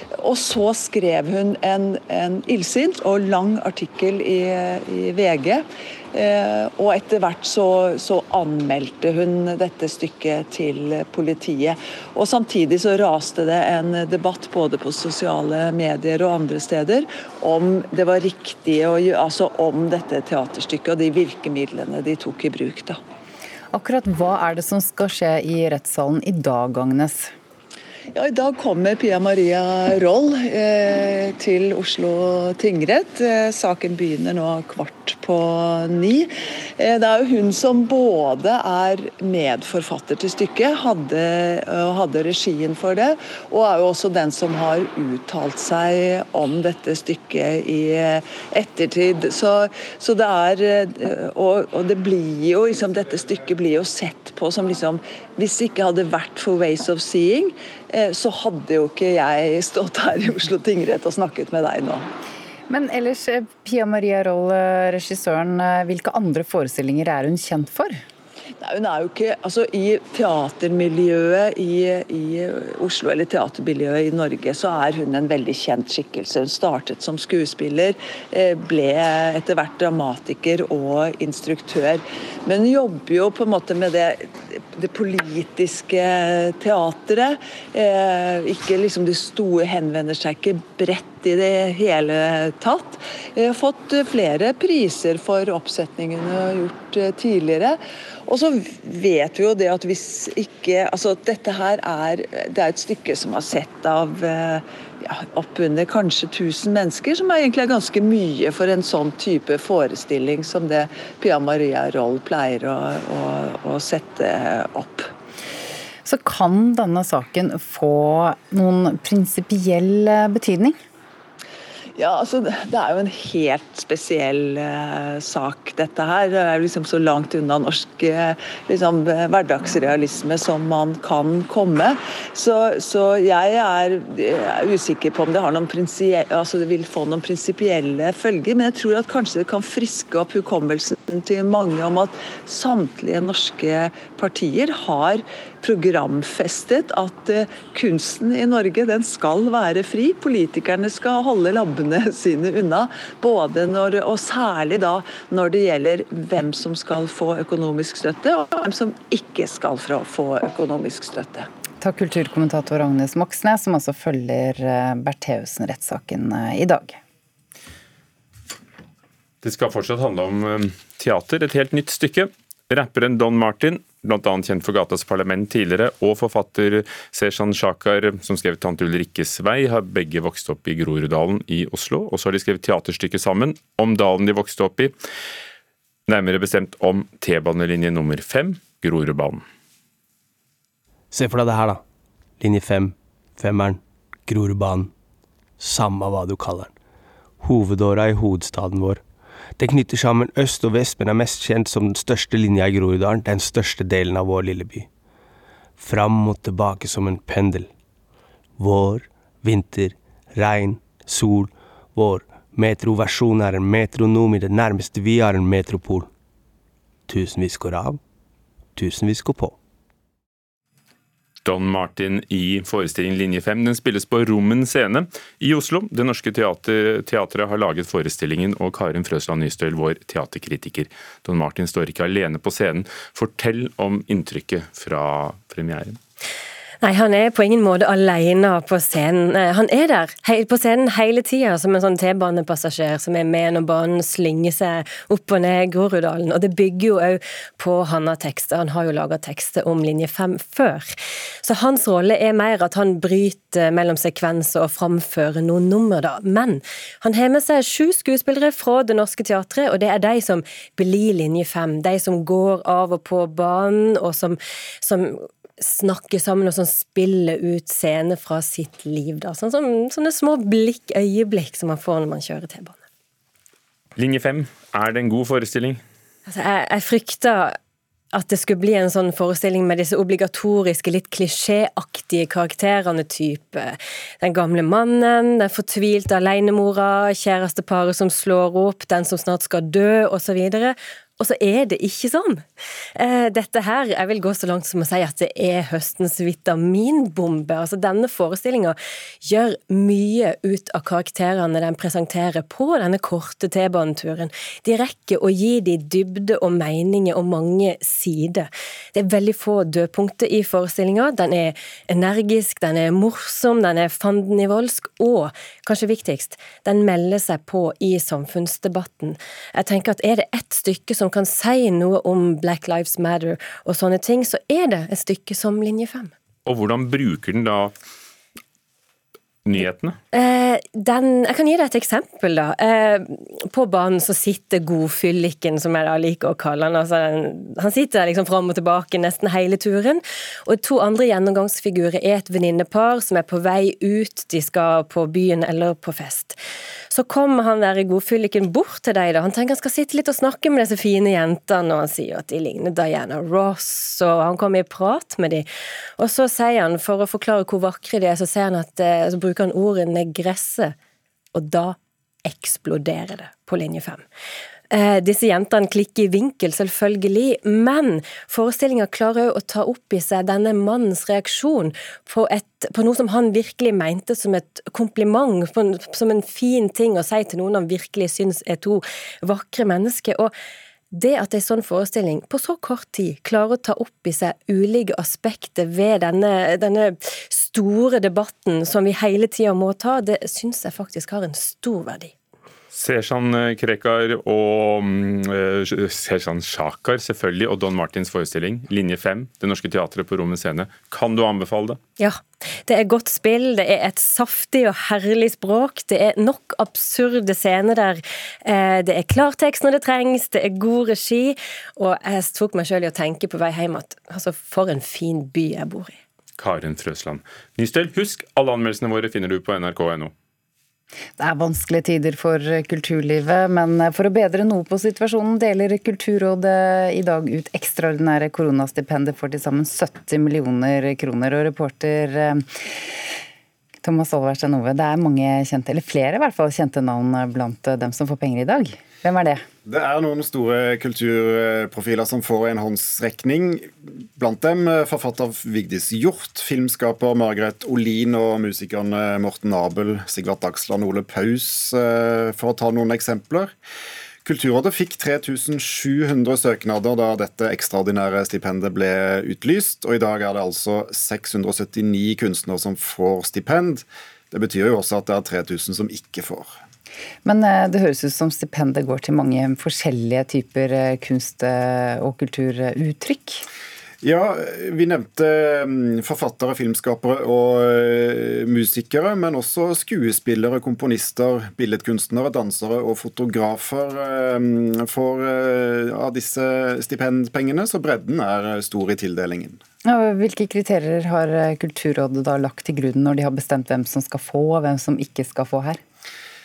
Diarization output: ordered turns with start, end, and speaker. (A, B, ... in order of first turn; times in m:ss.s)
0:00.2-0:23.0 A
0:23.7-0:27.3 B
0:28.1-1:02.1 A
1:02.7-1:07.9 B
1:08.6-1:55.1 A
1:56.0-2:00.7 B
2:02.0-2:41.5 A
2:41.8-2:47.0 B
2:49.4-3:05.0 C
3:06.1-3:09.4 C
3:11.1-3:11.8 D
3:12.4-3:14.9 D
3:15.6-3:16.7 D
3:17.4-3:19.0 D
3:19.6-3:24.9 D
3:25.8-3:27.7 D
3:28.6-3:36.1 D
3:37.1-3:38.0 D
3:38.8-3:39.6 D
3:41.4-3:56.0 C
3:56.8-4:32.8 E
4:34.0-4:35.8 C
4:36.2-4:37.6 E
4:38.1-5:26.1 E
5:26.4-5:27.7 C
5:29.4-5:30.0 C
5:30.1-5:46.4 E
5:46.9-5:55.5 E
5:56.0-6:00.8 E
6:01.3-6:04.0 E
6:04.7-6:20.3 E
6:20.9-6:32.1 E
6:32.7-6:41.8 C
6:42.0-6:56.0 E
6:56.4-7:00.1 C
7:01.2-7:12.4 B
7:13.8-7:19.4 B
7:19.6-7:33.5 F
7:34.2-7:46.5 F
7:47.2-7:53.4 B
7:54.0-8:09.6 F
8:09.8-8:15.8 B